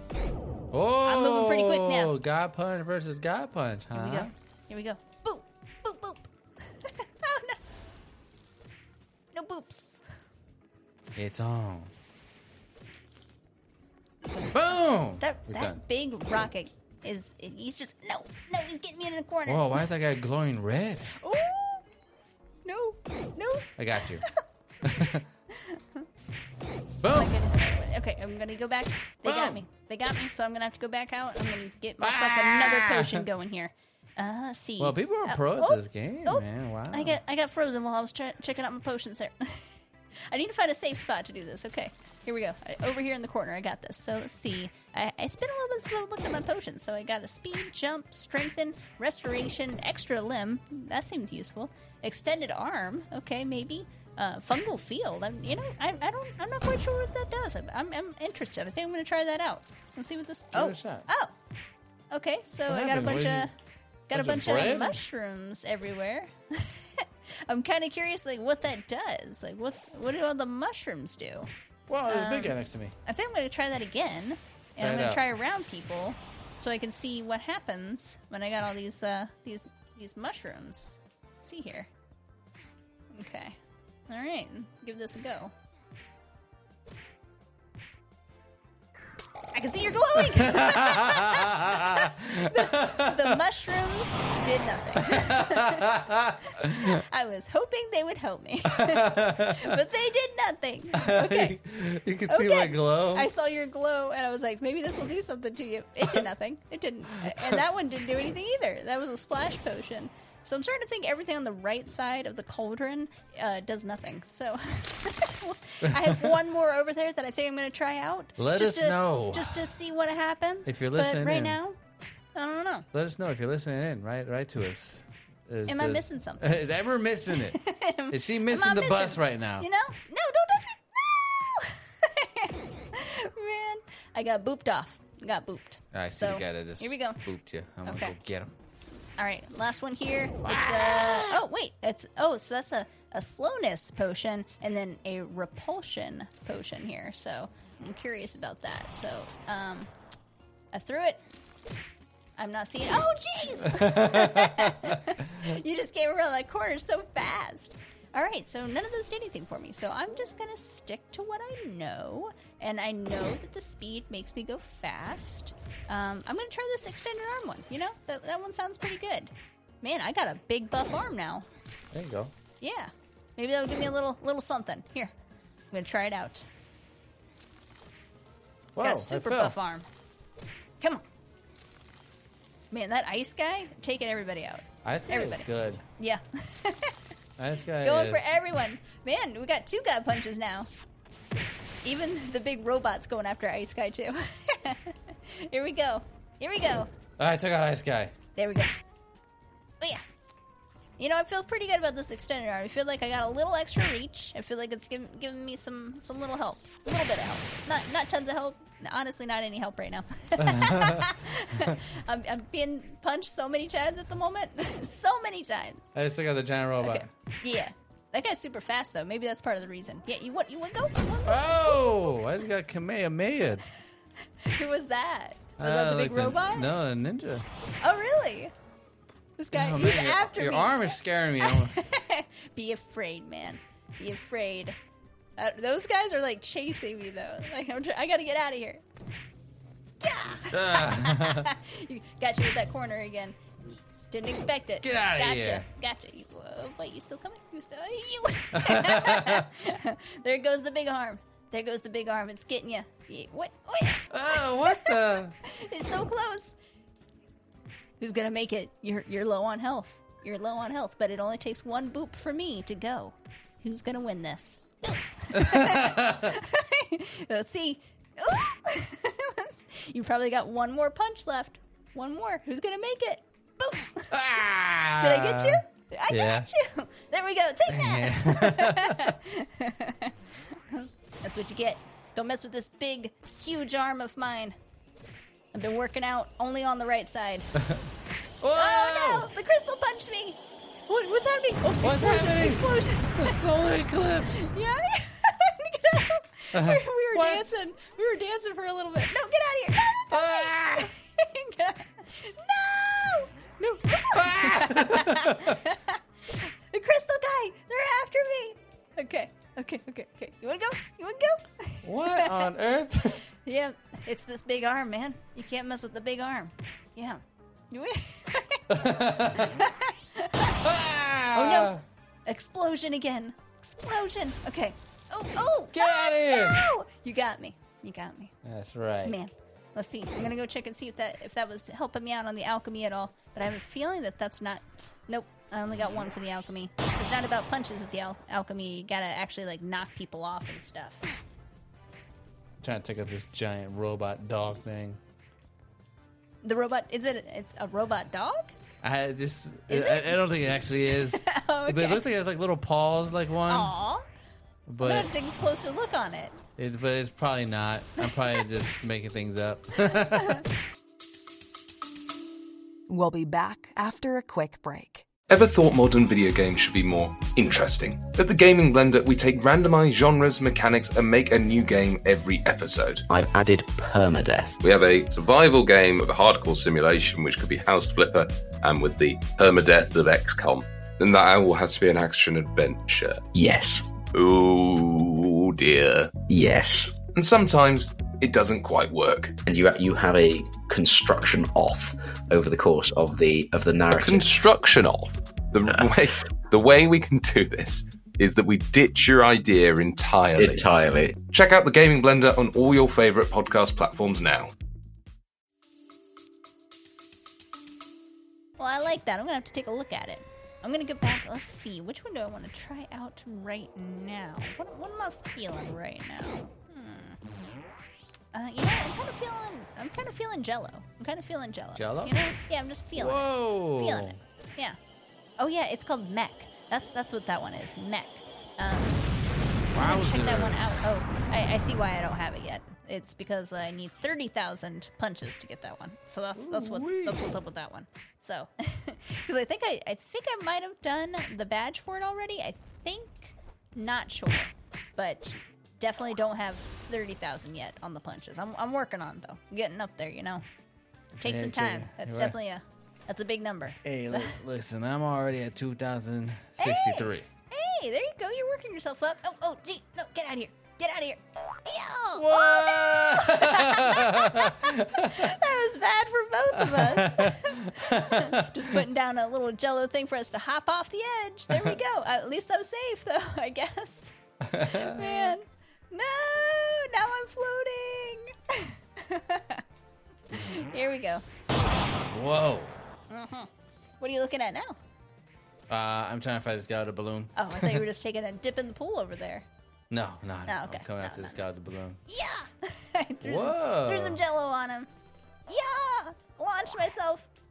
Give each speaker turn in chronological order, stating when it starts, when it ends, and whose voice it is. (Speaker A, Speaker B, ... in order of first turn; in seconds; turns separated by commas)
Speaker A: 0.7-4.3, Speaker B: 1.0-2.1, Speaker B: 3.9-7.6, Speaker B: 9.3-9.9, Speaker A: 11.2-11.9, Speaker A: 14.5-15.8, Speaker B: 15.2-19.9, Speaker A: 19.4-21.1, Speaker B: 21.2-21.9, Speaker B: 22.6-24.4, Speaker A: 23.8-24.2, Speaker A: 24.8-25.2, Speaker B: 25.0-26.1, Speaker A: 27.0-27.3, Speaker B: 27.1-39.7, Speaker A: 29.2-29.6, Speaker A: 32.0-33.3, Speaker A: 34.8-37.2, Speaker B: 40.3-61.3, Speaker A: 60.5-61.1, Speaker B: 62.1-63.5, Speaker A: 62.7-63.5, Speaker B: 64.1-71.5, Speaker A: 64.1-65.0, Speaker A: 71.9-72.9, Speaker B: 72.1-81.9, Speaker A: 74.8-75.2, Speaker B: 83.1-83.6, Speaker B: 84.1-85.5, Speaker B: 89.5-101.6, Speaker A: 90.3-93.4, Speaker A: 95.0-97.0, Speaker A: 98.7-99.8, Speaker A: 101.0-103.3, Speaker B: 102.3-121.8, Speaker A: 107.2-107.6, Speaker A: 115.8-116.4, Speaker A: 118.4-119.7, Speaker A: 120.7-121.6, Speaker B: 122.3-122.8, Speaker A: 122.9-127.6, Speaker B: 125.7-126.5, Speaker B: 127.3-137.2, Speaker A: 128.1-129.7, Speaker A: 135.9-138.6, Speaker B: 137.8-138.2, Speaker B: 139.2-149.9, Speaker A: 140.4-141.4, Speaker B: 150.7-151.2, Speaker B: 152.4-171.4, Speaker A: 153.7-154.9, Speaker A: 171.9-172.3, Speaker B: 172.6-175.1, Speaker B: 175.7-176.5, Speaker A: 178.7-179.6, Speaker B: 178.8-179.9, Speaker B: 182.7-185.5, Speaker A: 184.8-185.8, Speaker B: 186.0-186.9, Speaker A: 187.4-188.3, Speaker B: 187.8-190.7, Speaker B: 191.8-196.9, Speaker A: 197.2-198.1, Speaker B: 198.3-198.7, Speaker B: 201.0-215.9, Speaker A: 210.4-211.8, Speaker A: 215.9-217.1, Speaker B: 216.8-222.2, Speaker A: 221.2-223.6, Speaker B: 224.4-226.7, Speaker A: 225.6-227.4, Speaker B: 227.8-228.5, Speaker B: 229.4-234.8, Speaker A: 229.5-231.8, Speaker B: 235.4-238.8, Speaker B: 240.0-243.3, Speaker A: 240.5-241.5, Speaker B: 244.1-256.6, Speaker A: 244.8-245.7, Speaker A: 248.5-249.4, Speaker A: 254.1-255.3, Speaker B: 258.0-274.2, Speaker A: 265.3-266.3, Speaker A: 274.1-276.5, Speaker B: 274.9-284.6, Speaker A: 277.7-279.1, Speaker B: 285.5-287.5, Speaker A: 287.5-287.9, Speaker A: 288.4-289.3, Speaker B: 288.5-293.4, Speaker A: 291.8-294.5, Speaker B: 294.3-312.5, Speaker A: 296.5-297.5, Speaker A: 300.1-300.9, Speaker A: 304.1-305.6, Speaker A: 311.8-313.2, Speaker B: 313.1-320.6, Speaker A: 318.7-319.6, Speaker A: 320.6-321.8, Speaker B: 321.3-321.7, Speaker B: 322.2-328.3, Speaker A: 325.7-326.6, Speaker A: 328.4-329.1, Speaker B: 329.0-341.1, Speaker A: 342.6-345.0, Speaker B: 346.4-348.6, Speaker A: 348.8-353.7, Speaker B: 349.7-350.2, Speaker B: 350.9-352.0, Speaker B: 353.4-354.0, Speaker A: 354.7-355.1, Speaker B: 354.8-356.4, Speaker A: 356.6-360.4, Speaker B: 359.9-360.4, Speaker C: 362.9-365.1, Speaker D: 365.3-373.0, Speaker E: 373.1-374.6, Speaker D: 374.6-383.2, Speaker E: 383.3-383.8, Speaker D: 384.1-386.1, Speaker E: 386.3-386.9, Speaker D: 387.1-389.4, Speaker E: 389.4-394.3, Speaker D: 393.9-404.5, Speaker E: 400.4-401.1, Speaker B: 408.6-417.2, Speaker B: 418.3-424.8, Speaker A: 421.7-422.1, Speaker A: 422.9-424.2, Speaker B: 425.4-429.0, Speaker B: 429.6-450.4, Speaker A: 429.7-430.9, Speaker A: 436.4-437.2, Speaker B: 451.2-454.4, Speaker A: 451.2-452.4, Speaker A: 453.8-457.3, Speaker B: 456.6-479.6, Speaker A: 462.1-465.4, Speaker A: 466.5-468.8, Speaker A: 471.5-471.8, Speaker A: 474.4-475.4, Speaker B: 480.3-481.7, Speaker A: 482.1-482.8, Speaker B: 483.1-484.8, Speaker A: 485.7-487.9, Speaker B: 487.4-489.4, Speaker A: 489.9-492.0, Speaker B: 490.5-491.4, Speaker B: 492.1-494.9, Speaker A: 493.2-494.2, Speaker B: 495.5-497.3